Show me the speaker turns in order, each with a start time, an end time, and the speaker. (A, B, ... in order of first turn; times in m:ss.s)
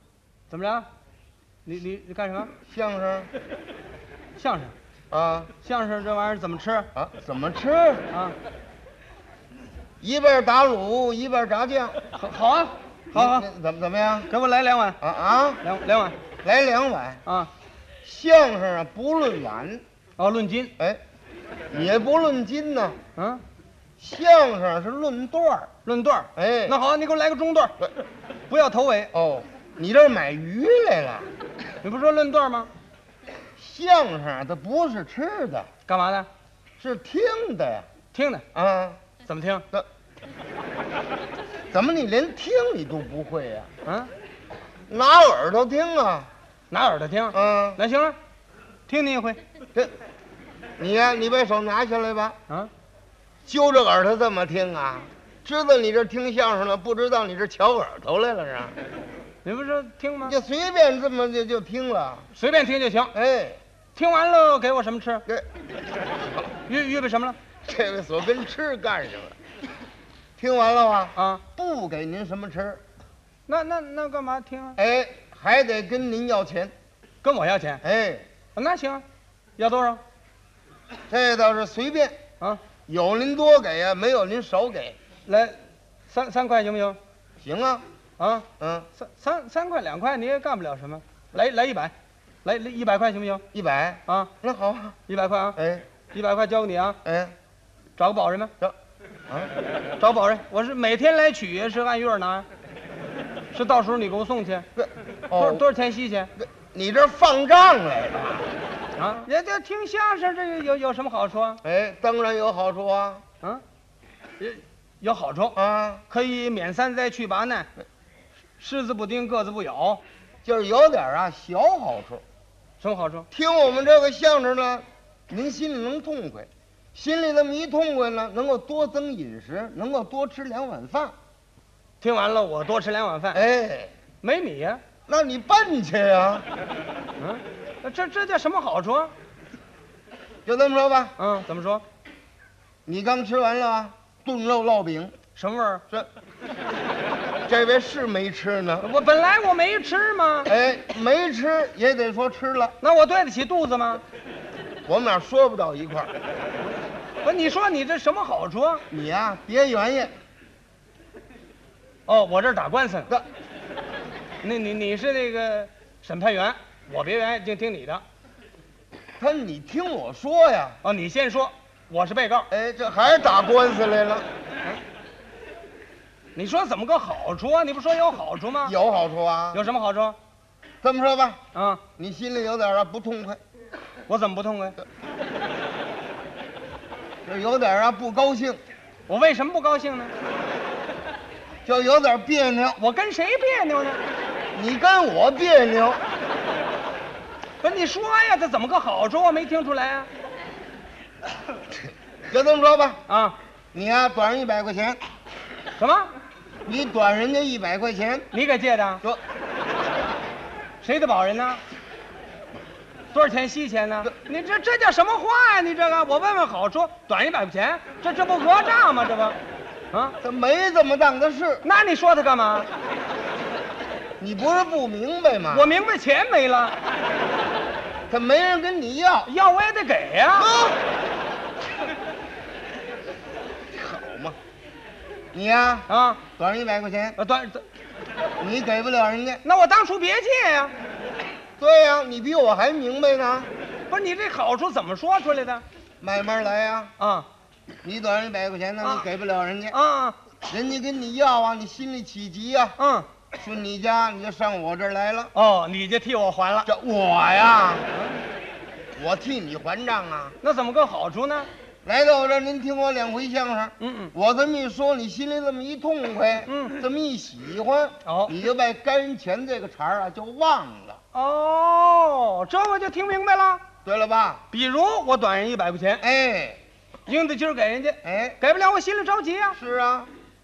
0:00.5-0:00.9 A
0:01.6-0:02.5 A
0:02.7-0:03.3 B
0:04.4-0:04.7 A
0:05.1-0:05.5 B
0:05.6-0:06.9 A
0:06.9-0:08.0 B
0:08.1-0:08.4 A
0:10.0-0:12.0 B
0:12.1-0:13.5 A
0:13.1-0:14.3 B
0:14.3-0:15.0 A
0:15.0-0:15.6 B
0:15.6-0:16.2 A
0:16.4-0:17.2 B
0:17.2-0:17.5 A
0:18.0-0:19.8 B
0:20.2-0:20.7 A
0:21.7-0:23.0 B
0:23.2-0:23.4 A
0:24.0-0:25.7 B
0:25.8-0:27.8 A
0:26.3-0:26.8 B
0:28.5-0:29.1 A
0:29.1-0:31.3 B
0:31.8-0:32.7 A
0:33.6-0:35.7 B
0:35.8-0:36.3 A
0:36.8-0:37.9 B
0:38.1-0:38.4 A
0:38.5-0:39.0 B
0:39.2-0:39.6 A
0:41.7-0:43.7 B
0:43.8-0:44.1 A
0:44.9-0:46.3 B
0:46.7-0:48.2 A
0:47.3-0:47.8 B
0:48.9-0:49.4 A
0:50.8-0:52.4 B
0:53.4-0:58.8 B
0:59.4-1:00.3 A
1:00.2-1:02.3 B
1:02.3-1:03.1 A
1:03.1-1:03.6 B
1:03.9-1:05.2 A
1:06.7-1:07.4 A
1:07.6-1:09.4 B
1:10.4-1:12.8 B
1:11.2-1:11.4 A
1:13.5-1:14.8 A
1:14.8-1:16.7 B
1:17.2-1:17.8 A
1:17.8-1:18.2 B
1:18.5-1:19.0 A
1:19.6-1:20.0 A
1:21.1-1:22.2 B
1:22.9-1:25.0 B
1:25.2-1:25.6 A
1:26.1-1:27.0 A
1:27.4-1:27.8 B
1:28.2-1:31.9 A
1:28.6-1:28.9 B
1:32.4-1:33.4 A
1:33.5-1:35.0 B
1:34.1-1:34.3 A
1:35.1-1:35.6 A
1:35.6-1:35.8 B
1:36.1-1:37.0 A
1:37.0-1:37.3 B
1:38.0-1:38.5 A
1:40.0-1:42.5 A
1:43.5-1:44.7 A
1:44.8-1:45.6 B
1:45.3-1:46.3 A
1:46.4-1:48.5 B
1:49.0-1:51.6 A
1:51.6-1:53.2 B
1:54.4-1:55.6 A
1:55.5-1:56.0 B
1:56.1-1:57.7 A
1:58.6-2:00.0 A
2:00.4-2:02.2 B
2:02.8-2:03.3 A
2:03.3-2:11.1 B
2:12.0-2:13.4 A
2:13.3-2:13.9 B
2:14.2-2:14.8 A
2:15.1-2:16.4 B
2:17.2-2:19.1 A
2:20.4-2:21.2 B
2:21.2-2:21.8 A
2:22.8-2:25.2 B
2:25.4-2:25.8 A
2:27.5-2:28.9 B
2:28.8-2:30.5 A
2:30.4-2:32.8 B
2:32.8-2:34.0 A
2:34.9-2:36.1 B
2:37.2-2:38.8 A
2:38.9-2:40.1 B
2:42.1-2:43.1 A
2:44.4-2:48.0 A
2:49.2-2:50.8 B
2:50.8-2:52.5 A
2:52.5-2:54.2 B
2:56.4-2:58.7 A
2:58.6-2:59.6 B
2:59.5-3:00.2 A
3:00.8-3:01.4 B
3:01.5-3:01.8 A
3:02.0-3:03.4 B
3:04.1-3:04.8 A
3:07.2-3:08.6 B
3:09.1-3:10.1 A
3:11.6-3:12.8 B
3:12.8-3:14.0 A
3:14.5-3:16.0 B
3:17.6-3:20.1 A
3:22.3-3:23.0 B
3:23.1-3:23.4 A
3:23.7-3:25.0 B
3:25.8-3:26.1 A
3:26.6-3:28.3 B
3:28.3-3:29.0 A
3:30.8-3:31.6 A
3:33.1-3:39.4 A
3:39.9-3:40.2 A
3:40.2-3:41.6 B
3:41.6-3:42.7 A
3:44.2-3:45.7 B
3:45.5-3:46.8 A
3:48.1-3:49.3 B
3:49.2-3:50.5 A
3:50.4-3:50.8 B
3:53.7-3:54.4 B
3:55.3-3:57.2 B
3:55.9-3:56.2 A
3:57.2-3:57.7 A
3:58.4-3:59.4 B
3:59.4-4:00.7 A
4:01.6-4:03.5 B
4:03.9-4:05.6 A
4:06.0-4:06.9 B
4:07.0-4:07.3 A
4:07.8-4:09.8 B
4:09.7-4:10.2 A
4:10.5-4:12.8 B
4:12.8-4:13.1 A
4:13.3-4:15.3 B
4:15.3-4:16.7 A
4:16.6-4:17.9 B
4:19.0-4:20.4 B
4:20.4-4:21.5 A
4:21.8-4:31.0 B
4:23.8-4:24.1 A
4:26.5-4:26.8 A
4:28.0-4:28.3 A
4:31.1-4:33.6 A
4:33.8-4:34.4 B
4:34.5-4:36.0 A
4:36.0-4:36.6 B
4:37.0-4:39.6 A
4:38.0-4:38.4 B
4:39.5-4:40.1 B